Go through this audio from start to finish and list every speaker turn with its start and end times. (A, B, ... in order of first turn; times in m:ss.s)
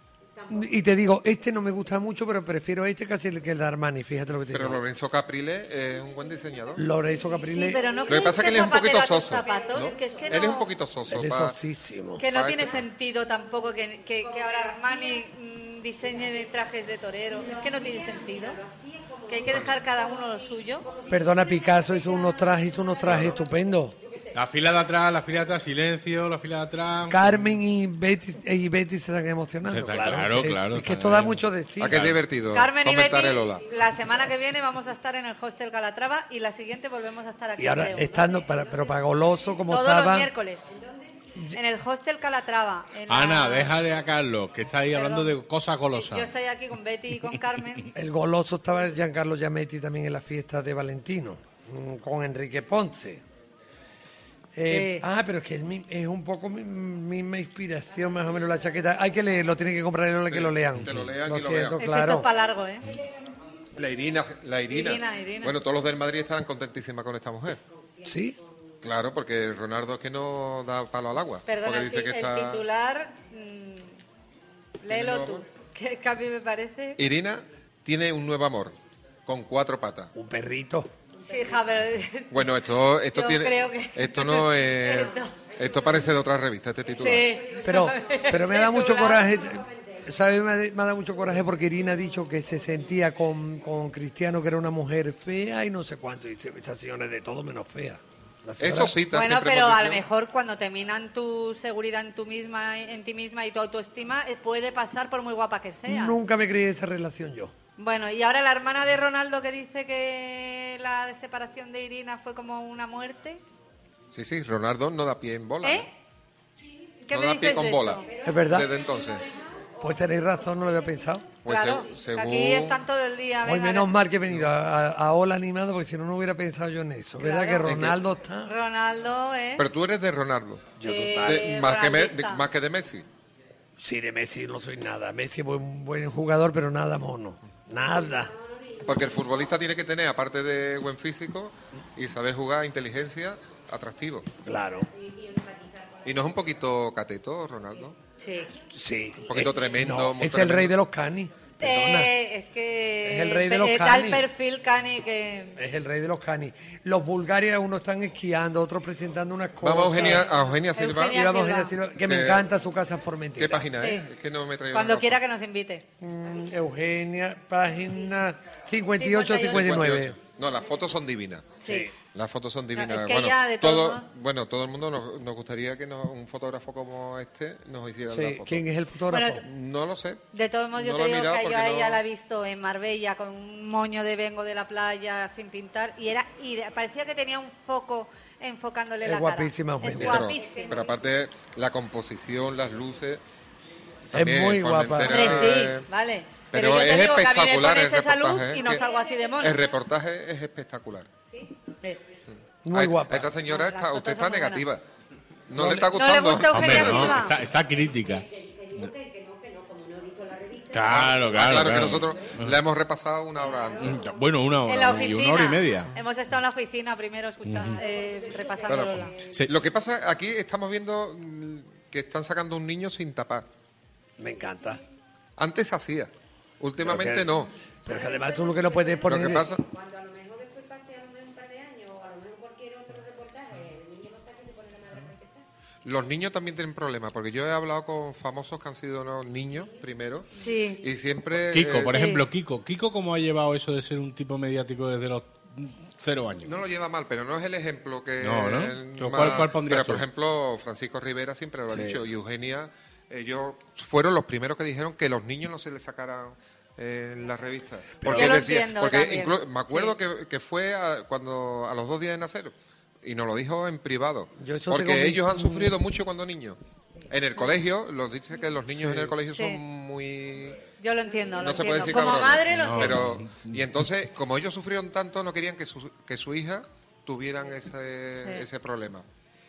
0:00.5-0:04.8 A
0:04.5-0:06.9 B
0:06.8-0:07.8 A
0:07.5-0:10.7 C
0:07.6-0:08.1 D
0:08.1-0:11.6 B
0:11.1-0:12.2 A
0:12.2-0:18.6 C
0:12.2-0:12.8 B
0:14.2-0:15.2 D
0:17.3-0:23.2 D
0:19.3-0:20.9 C
0:19.5-0:19.7 B
0:21.1-0:24.0 A
0:23.0-0:23.4 B
0:24.0-0:24.3 D
0:24.3-0:27.3 E
0:27.1-0:32.0 A
0:29.6-0:32.2 E
0:31.8-0:33.6 B
0:32.5-0:38.3 C
0:37.6-0:40.3 A
0:37.9-0:38.9 D
0:39.7-0:40.6 C
0:40.7-0:41.1 D
0:41.5-0:43.7 C
0:43.1-0:46.3 E
0:44.9-0:45.4 C
0:45.9-0:47.9 C
0:48.0-0:53.2 A
0:54.5-1:02.3 A
0:54.7-0:55.0 C
1:00.3-1:01.8 B
1:00.8-1:01.0 E
1:01.8-1:02.8 C
1:03.8-1:07.6 B
1:04.7-1:05.6 C
1:08.0-1:08.4 A
1:08.8-1:12.6 B
1:11.5-1:14.0 C
1:14.8-1:17.0 C
1:14.9-1:15.4 B
1:17.0-1:18.8 B
1:19.3-1:20.1 B
1:20.1-1:20.9 A
1:21.2-1:22.5 C
1:22.3-1:27.3 B
1:23.1-1:25.4 C
1:27.0-1:29.4 C
1:27.3-1:30.0 D
1:27.6-1:39.0 A
1:38.6-1:40.0 B
1:39.1-1:46.2 C
1:45.9-1:47.5 A
1:47.8-1:53.4 C
1:54.1-1:55.9 B
1:57.1-1:58.0 C
1:57.1-1:59.3 B
1:58.0-2:01.1 D
1:58.2-1:58.7 A
1:59.8-2:01.3 A
2:01.4-2:02.8 B
2:01.5-2:03.9 C
2:03.4-2:08.5 A
2:07.2-2:07.8 C
2:07.6-2:08.0 B
2:08.5-2:09.6 C
2:09.6-2:13.1 B
2:10.8-2:11.5 A
2:10.8-2:12.4 C
2:13.8-2:18.3 A
2:17.8-2:19.5 D
2:18.8-2:24.3 B
2:24.4-2:24.9 A
2:24.9-2:26.3 D
2:26.0-2:28.0 B
2:28.2-2:28.5 C
2:28.7-2:32.1 A
2:29.2-2:30.7 B
2:31.6-2:35.6 C
2:33.0-2:34.3 A
2:35.6-2:40.3 A
2:39.6-2:41.2 B
2:39.9-2:41.8 C
2:41.1-2:43.7 A
2:42.0-2:42.5 B
2:43.4-2:45.2 B
2:43.8-2:44.1 C
2:44.7-2:45.8 C
2:46.0-2:50.2 A
2:49.0-2:49.9 C
2:49.4-2:51.5 B
2:51.6-2:51.9 C
2:51.6-2:51.9 A
2:52.1-2:58.6 B
2:52.8-2:54.0 C
2:58.1-2:59.4 A
2:59.1-2:59.4 C
2:59.4-3:00.2 B
3:00.3-3:10.7 C
3:00.8-3:02.0 B
3:09.0-3:10.3 A
3:09.9-3:13.2 B
3:10.4-3:11.0 D
3:14.1-3:15.9 B
3:14.1-3:15.6 A
3:15.1-3:19.6 C
3:16.5-3:18.9 B
3:18.6-3:19.6 D
3:19.4-3:21.1 B
3:22.6-3:23.3 A
3:22.7-3:24.8 B
3:23.4-3:24.7 C
3:25.5-3:27.2 B
3:25.6-3:25.9 A
3:25.9-3:27.4 C
3:26.5-3:28.2 E
3:27.6-3:31.9 D
3:30.7-3:32.6 E
3:30.9-3:34.0 B
3:33.4-3:34.1 D
3:33.8-3:35.9 E
3:34.7-3:39.1 C
3:37.5-3:37.8 E
3:37.6-3:39.4 D
3:38.7-3:43.5 B
3:44.2-3:44.8 A
3:45.4-3:47.5 B
3:46.8-3:49.5 A
3:47.9-3:55.4 D
3:49.0-3:49.6 B
3:55.8-4:00.3 B
4:00.4-4:00.8 C
4:00.8-4:02.0 B
4:01.5-4:06.5 E
4:01.9-4:02.2 C
4:06.4-4:26.6 B
4:08.2-4:10.1 E
4:11.7-4:12.0 A
4:18.0-4:18.5 A
4:18.1-4:19.9 C
4:24.4-4:25.8 A
4:27.1-4:30.6 B
4:28.7-4:29.2 A
4:29.3-4:29.6 C
4:30.8-4:33.1 C
4:31.4-4:31.6 D
4:31.4-4:39.0 B
4:32.5-4:33.6 E